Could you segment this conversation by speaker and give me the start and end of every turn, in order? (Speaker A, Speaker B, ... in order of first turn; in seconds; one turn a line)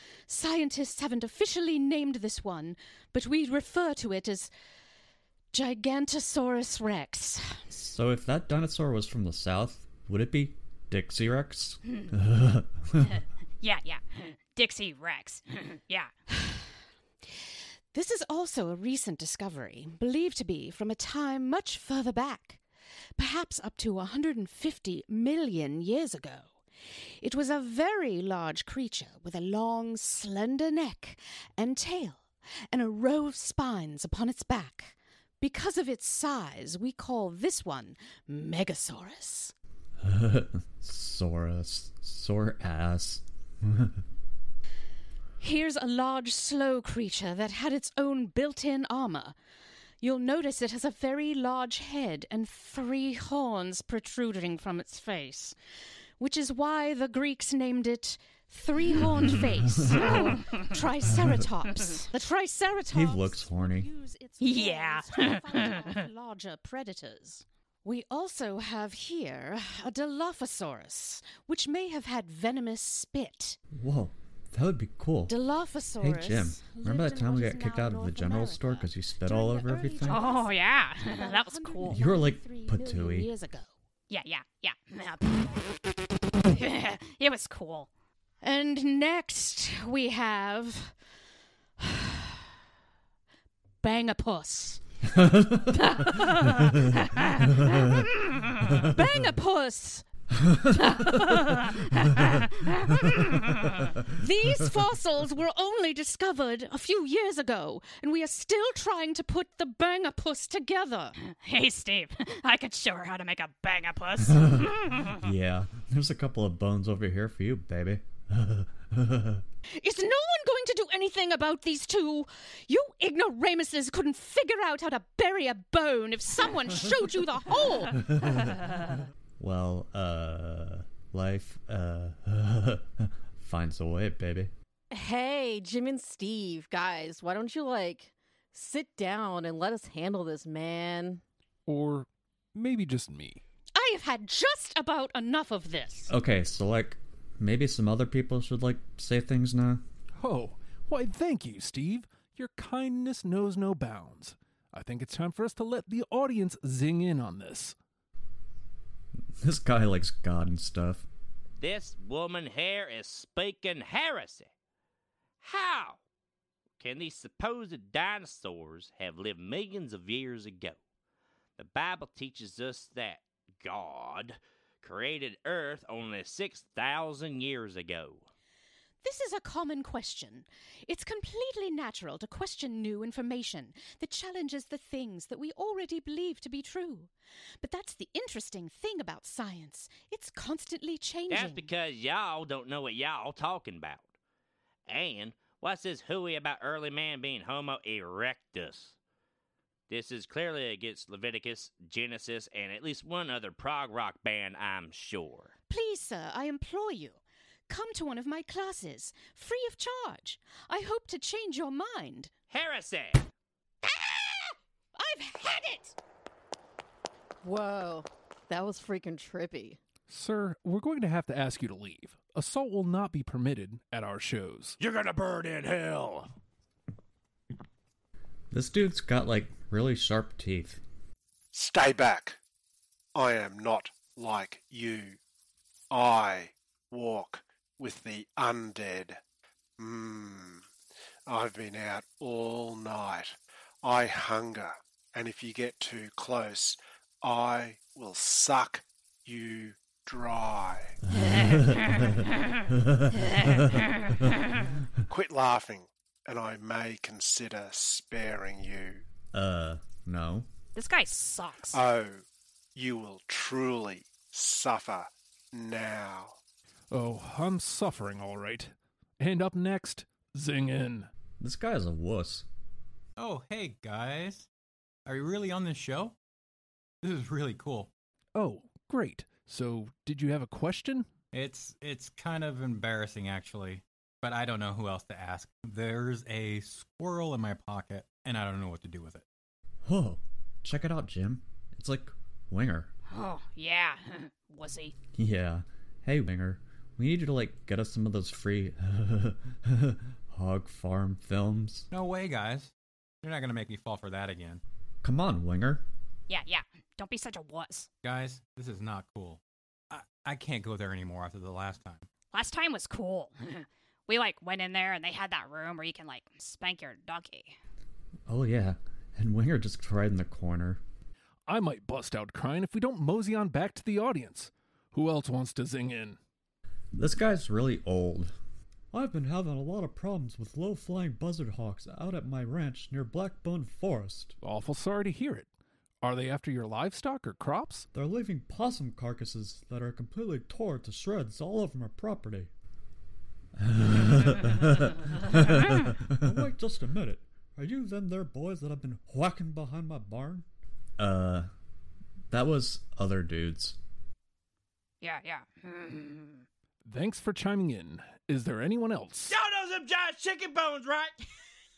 Speaker A: 0.3-4.5
Speaker A: 5.5-7.6
Speaker B: 7.7-13.0
Speaker C: 13.6-16.1
Speaker A: 17.9-22.6
Speaker A: 23.2-26.5
Speaker A: 27.2-39.5
Speaker B: 40.0-43.9
Speaker A: 45.4-49.4
Speaker A: 50.0-55.6
Speaker A: 56.2-73.6
Speaker B: 59.2-60.3
Speaker B: 62.9-63.9
Speaker C: 64.4-66.1
Speaker B: 73.8-75.3
Speaker A: 75.3-83.7
Speaker B: 76.0-80.2
Speaker C: 80.0-82.0
Speaker B: 81.9-83.3
Speaker C: 84.1-87.9
Speaker A: 88.4-91.0
Speaker A: 91.8-92.3
Speaker A: 93.8-94.8
Speaker B: 95.2-95.6
Speaker A: 96.0-100.1
Speaker A: 100.7-101.5
Speaker A: 102.9-103.4
Speaker A: 104.1-111.2
Speaker C: 111.2-115.2
Speaker B: 114.3-119.4
Speaker A: 119.8-128.0
Speaker B: 128.1-128.8
Speaker B: 129.4-134.5
Speaker D: 134.9-141.2
Speaker E: 141.7-143.4
Speaker A: 143.7-146.1
Speaker B: 146.1-149.8
Speaker E: 150.2-157.8
Speaker B: 159.4-161.1
Speaker F: 161.6-164.5
Speaker F: 165.4-166.0
Speaker F: 166.8-170.8
Speaker F: 171.6-178.3
Speaker A: 179.0-187.1
Speaker A: 187.6-191.7
Speaker F: 191.3-194.1
Speaker F: 194.9-199.0
Speaker F: 199.9-205.5
Speaker A: 205.7-212.3
Speaker F: 212.5-213.3
Speaker A: 214.1-214.4
Speaker A: 214.9-216.0
Speaker D: 217.4-219.8
Speaker E: 220.1-224.8
Speaker F: 224.8-226.3
Speaker B: 228.5-230.8
Speaker G: 231.5-232.4
Speaker G: 233.2-235.2
Speaker G: 235.9-239.2
Speaker G: 239.8-240.7
Speaker G: 241.3-250.9
Speaker B: 251.2-252.0
Speaker C: 251.3-251.6
Speaker G: 255.1-259.0
Speaker B: 259.3-260.5
Speaker C: 260.8-261.8
Speaker G: 261.7-262.2
Speaker G: 262.8-266.4
Speaker E: 266.9-271.1
Speaker B: 271.4-272.5
Speaker H: 273.2-274.5
Speaker H: 275.1-276.1
Speaker H: 277.0-277.9
Speaker E: 278.4-281.1
Speaker H: 281.3-289.2
Speaker B: 289.9-292.9
Speaker C: 293.1-294.9
Speaker B: 295.2-301.9
Speaker H: 301.9-302.7
Speaker H: 303.2-304.6
Speaker B: 305.0-305.9
Speaker C: 306.3-307.9
Speaker H: 308.0-309.4
Speaker H: 309.9-312.0
Speaker C: 312.3-317.6
Speaker B: 318.3-320.8
Speaker E: 321.5-326.2
Speaker B: 327.0-328.4
Speaker B: 328.9-334.4
Speaker E: 334.4-335.5
Speaker E: 336.0-337.9
Speaker B: 337.9-342.5
Speaker B: 343.6-350.5
Speaker B: 351.0-351.5
Speaker B: 352.3-353.8
Speaker C: 355.0-356.4
Speaker E: 356.8-359.4
Speaker F: 359.3-361.1